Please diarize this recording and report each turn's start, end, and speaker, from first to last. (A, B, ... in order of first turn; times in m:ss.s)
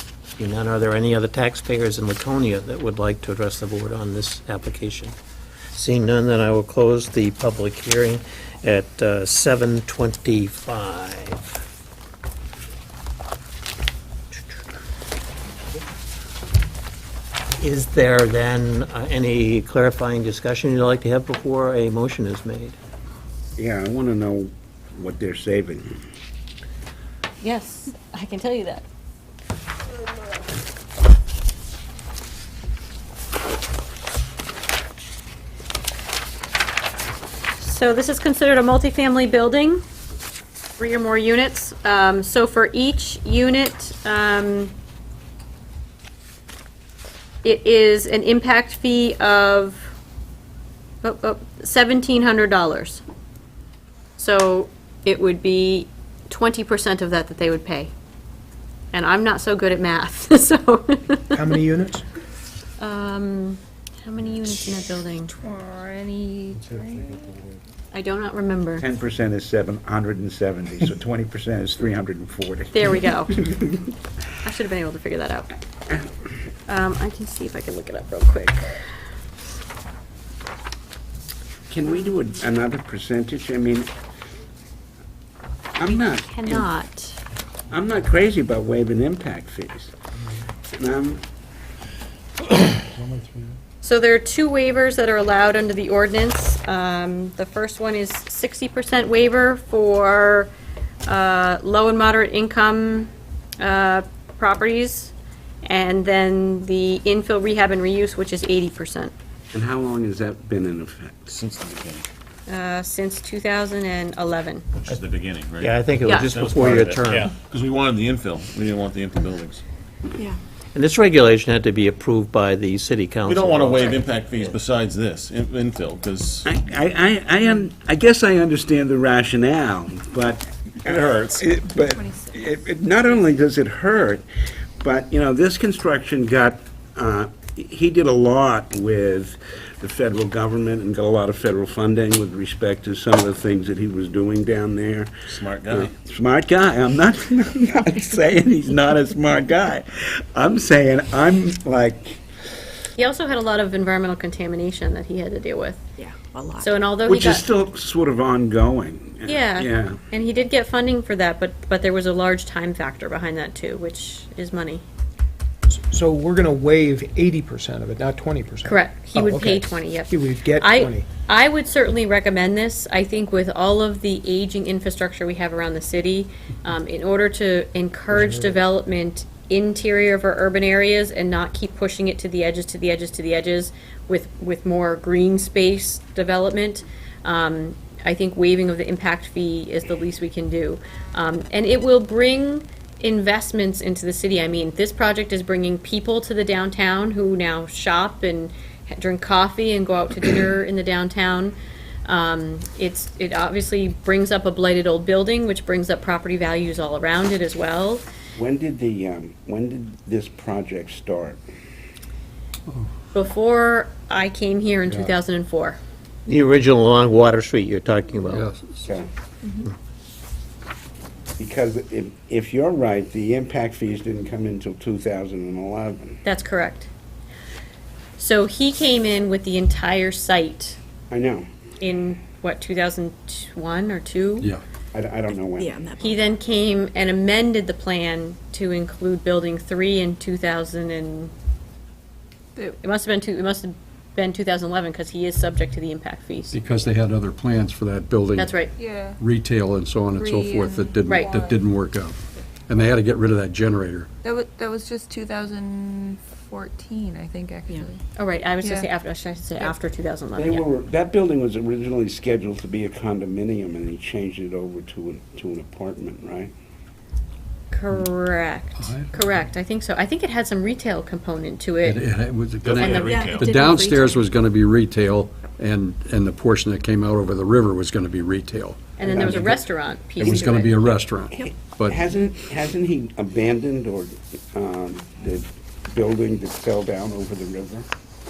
0:00.4-0:05.1 A
0:05.7-0:11.6 A
0:17.6-0:22.8 A
0:23.6-0:25.9 B
0:27.4-0:28.8 C
0:37.6-0:39.8 C
0:40.8-0:44.7 C
0:47.4-0:49.9 C
0:51.0-0:53.0 C
0:54.2-0:57.9 C
0:58.9-1:01.4 C
1:01.3-1:02.0 D
1:02.8-1:05.3 C
1:05.3-1:07.4 E
1:07.9-1:08.8 C
1:08.8-1:13.7 B
1:12.7-1:13.4 C
1:14.4-1:15.5 C
1:16.7-1:18.9 C
1:21.7-1:23.9 B
1:25.8-1:26.7 B
1:26.3-1:27.2 C
1:27.7-1:29.9 B
1:30.7-1:31.2 B
1:33.8-1:40.5 C
1:41.0-1:45.1 C
1:45.6-1:49.1 C
1:49.5-1:51.4 B
1:51.3-1:52.1 F
1:52.5-1:54.6 C
1:54.9-1:59.6 F
1:55.6-1:57.3 A
2:00.7-2:04.0 A
2:03.2-2:06.5 F
2:06.4-2:14.2 B
2:10.8-2:11.4 F
2:14.8-2:25.1 B
2:25.3-2:25.9 F
2:25.7-2:32.2 B
2:33.0-2:35.9 C
2:36.0-2:36.8 G
2:36.6-2:37.4 C
2:37.0-2:40.0 B
2:39.2-2:44.8 C
2:45.7-2:51.1 D
2:48.6-3:21.6 C
3:22.1-3:28.0 C
3:28.4-3:31.4 B
3:33.1-3:35.8 C
3:36.2-3:38.5 A
3:38.3-3:38.8 H
3:41.4-3:46.2 B
3:46.2-3:46.9 C
3:48.2-3:50.8 C
3:51.1-3:51.5 B
3:51.8-3:54.5 C
3:54.9-3:55.8 B
3:55.6-3:56.3 G
3:56.0-4:01.3 C
4:02.6-4:06.6 C
4:06.5-4:12.2 H
4:08.4-4:08.7 C
4:08.7-4:09.2 E
4:10.1-4:11.6 E
4:11.0-4:11.3 C
4:12.7-4:14.1 H
4:14.2-4:18.0 E
4:18.2-4:20.7 C
4:18.6-4:18.9 E
4:20.4-4:26.5 B
4:27.7-4:32.0 C
4:28.8-4:29.1 H
4:31.8-4:39.5 H
4:32.6-4:33.4 F
4:32.9-4:34.2 G
4:39.0-4:40.9 C
4:39.0-4:39.6 B
4:40.2-4:42.0 H
4:40.2-4:40.5 B
4:41.9-4:47.9 B